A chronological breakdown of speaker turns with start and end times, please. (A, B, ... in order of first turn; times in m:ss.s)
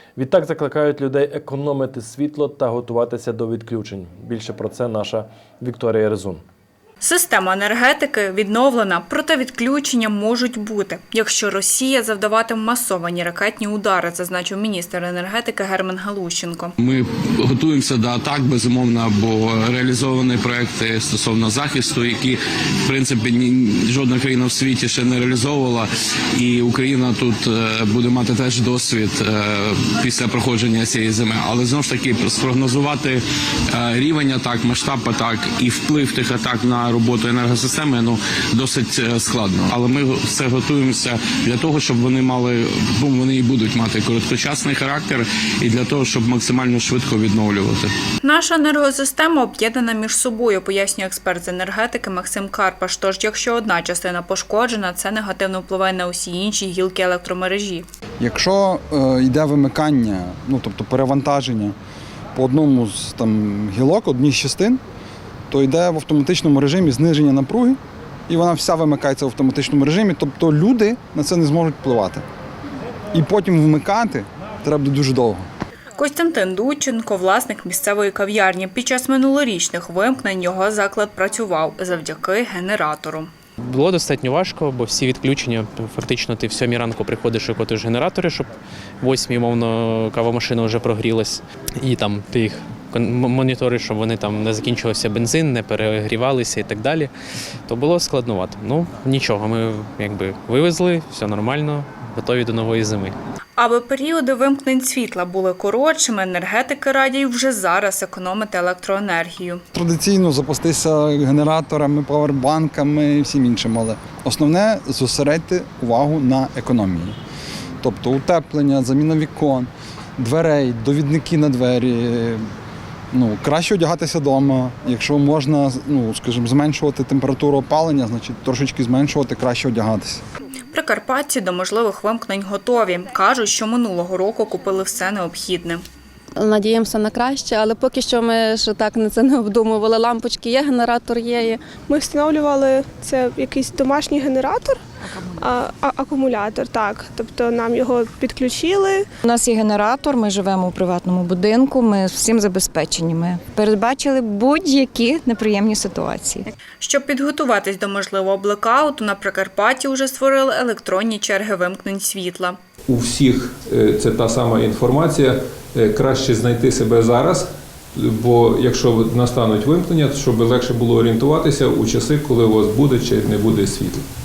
0:00.2-0:06.4 A
0:07.0-0:16.7 B
0:16.8-0:47.9 C
0:48.2-0:57.8 B
0:58.2-1:01.7 D
1:02.4-1:04.8 D
1:05.5-1:07.8 D
1:08.3-1:12.2 D
1:13.1-1:15.4 D
1:16.0-1:23.3 B
1:23.6-1:37.1 E
1:37.7-1:43.2 E
1:43.6-1:49.6 B
1:49.7-1:57.2 D
1:57.8-2:02.4 D
2:03.1-2:10.2 D
2:10.7-2:15.8 B
2:16.4-2:21.6 F
2:21.9-2:24.8 G
2:25.4-2:29.0 G
2:29.2-2:36.4 H
2:36.8-2:42.6 B
2:42.9-2:54.0 I